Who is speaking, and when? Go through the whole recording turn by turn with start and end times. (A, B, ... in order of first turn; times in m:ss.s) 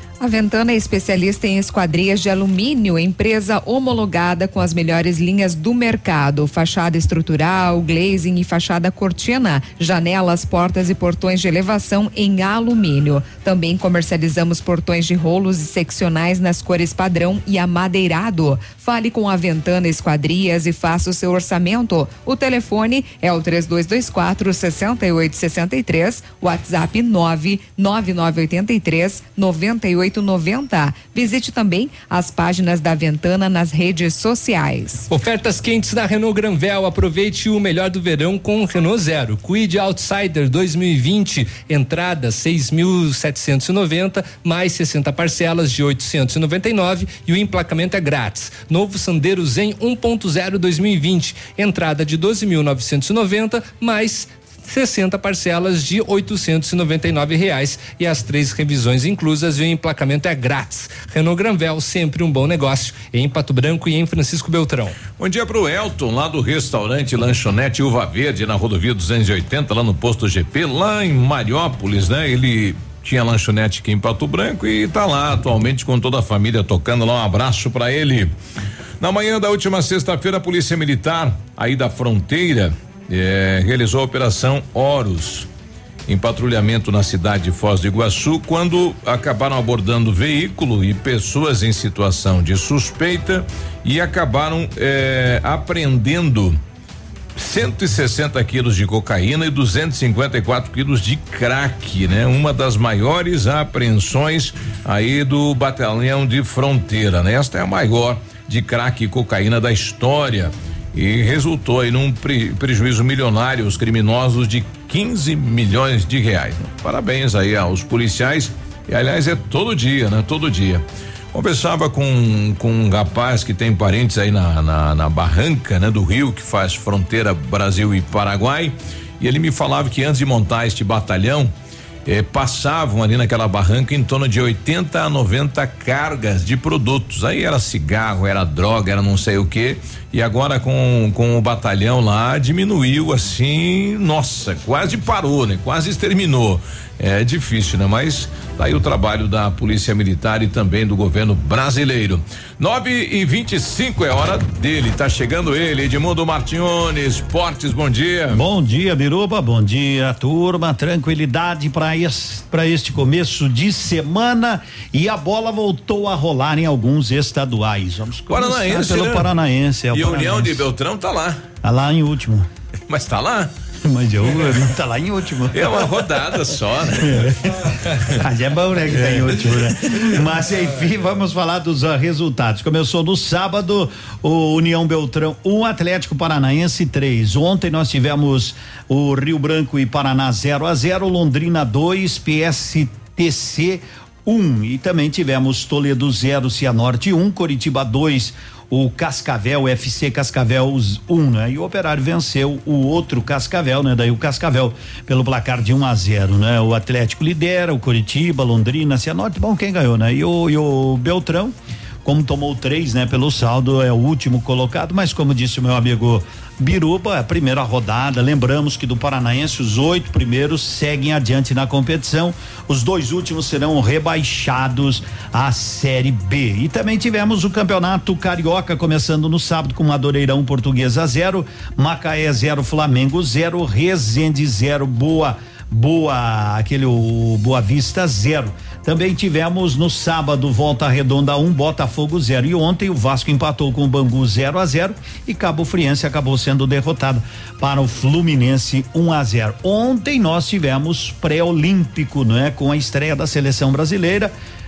0:00.2-0:35.1 A
0:35.1-1:05.0 B
1:05.2-1:18.3 C
1:19.0-1:25.5 C
1:26.1-1:36.6 C
1:37.4-2:11.5 C
2:12.0-2:38.4 C
2:38.3-2:50.6 D
2:48.3-2:49.3 C
2:49.9-2:51.5 C
2:51.6-2:52.4 D
2:52.9-2:53.5 C
2:53.8-2:55.8 D
2:55.5-2:57.4 C
2:57.0-2:57.3 D
2:58.2-3:31.5 D
3:32.0-4:14.3 D